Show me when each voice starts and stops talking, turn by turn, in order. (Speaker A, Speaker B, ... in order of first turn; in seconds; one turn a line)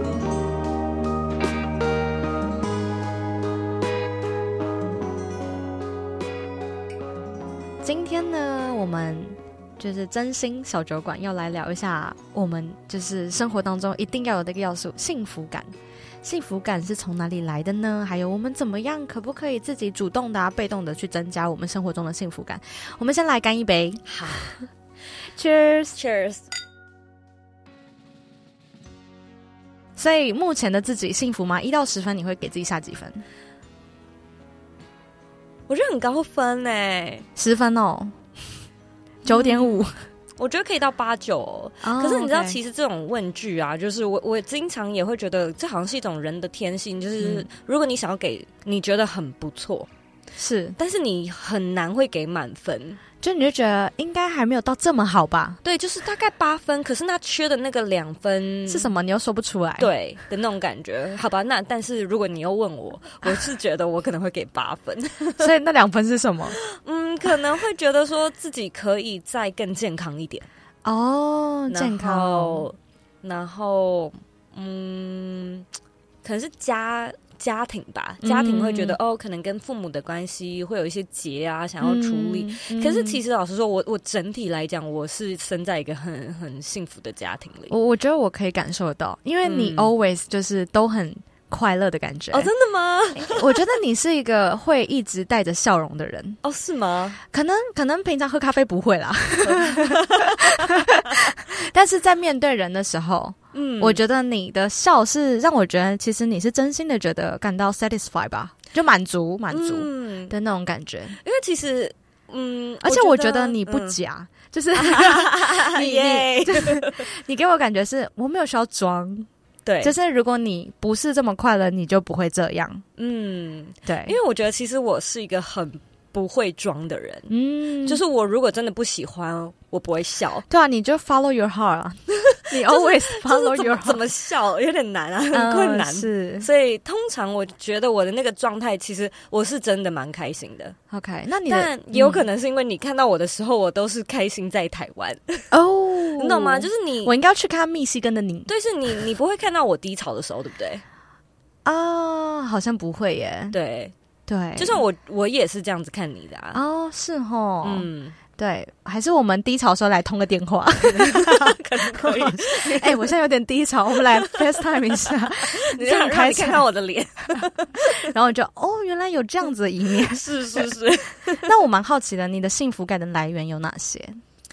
Speaker A: 7.8-24.1
Speaker B: 24.1-24.6
Speaker A: 25.3-26.0
Speaker B: 25.9-26.5
Speaker A: 30.0-33.2
Speaker B: 35.7-37.3
Speaker A: 37.4-38.1
Speaker A: 39.2-40.1
Speaker B: 39.3-39.8
Speaker B: 40.4-49.9
Speaker A: 41.8-42.6
Speaker A: 47.2-47.5
Speaker A: 50.4-50.8
Speaker B: 50.8-53.0
Speaker A: 53.2-55.6
Speaker B: 55.6-58.9
Speaker A: 58.7-59.9
Speaker B: 59.8-65.5
Speaker A: 65.4-66.6
Speaker B: 66.6-70.5
Speaker A: 70.8-72.7
Speaker B: 71.7-75.7
Speaker B: 76.2-87.8
Speaker A: 78.2-79.0
Speaker A: 81.8-83.2
Speaker A: 87.7-92.5
Speaker B: 89.4-89.9
Speaker B: 92.3-93.6
Speaker A: 93.1-96.4
Speaker B: 96.4-97.2
Speaker A: 97.3-111.2
Speaker B: 99.4-100.7
Speaker B: 103.5-104.0
Speaker B: 109.5-110.3
Speaker B: 111.2-114.0
Speaker A: 112.8-119.3
Speaker B: 114.7-117.1
Speaker B: 119.7-120.0
Speaker A: 119.8-122.8
Speaker B: 123.0-130.5
Speaker A: 123.9-124.2
Speaker A: 127.3-128.0
Speaker A: 130.5-134.1
Speaker B: 132.5-140.8
Speaker A: 135.3-136.5
Speaker A: 140.9-142.3
Speaker B: 141.5-145.5
Speaker A: 145.5-148.5
Speaker B: 146.2-147.1
Speaker B: 148.5-150.8
Speaker A: 151.7-153.6
Speaker B: 153.5-153.9
Speaker A: 154.3-154.8
Speaker B: 154.6-156.6
Speaker A: 156.5-166.7
Speaker B: 157.6-158.2
Speaker B: 160.8-163.2
Speaker B: 164.1-168.1
Speaker A: 168.0-170.7
Speaker B: 169.9-171.5
Speaker A: 171.4-174.2